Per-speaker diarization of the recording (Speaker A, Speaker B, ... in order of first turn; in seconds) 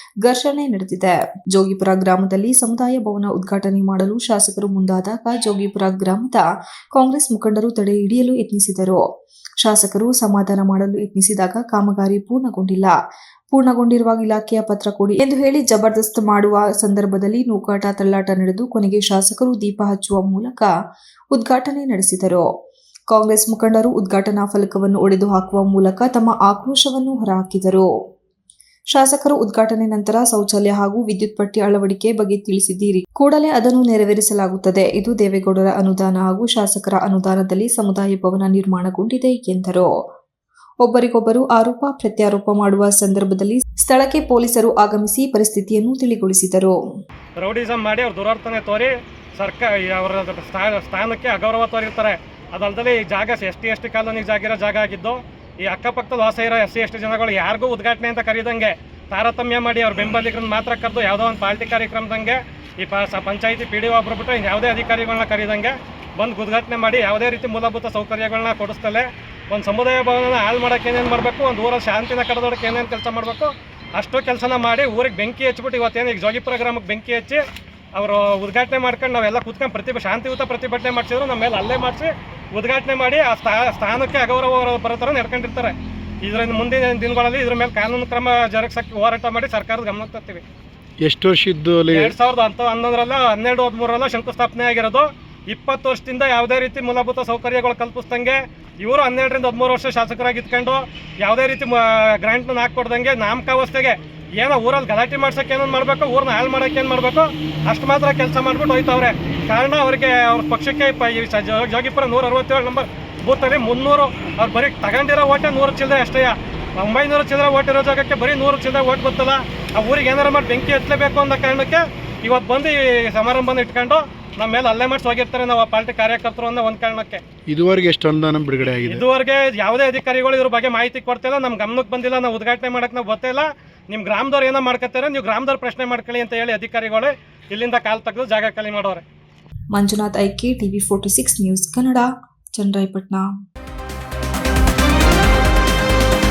Speaker A: 0.2-9.0, 9.6-13.0, 13.5-20.7, 21.3-22.5, 23.1-27.9, 28.9-39.9, 40.8-46.8, 139.7-143.3
Speaker B: 47.4-77.4, 78.0-90.4, 91.9-127.2, 128.8-139.0
Speaker C: 91.0-92.1, 127.5-129.0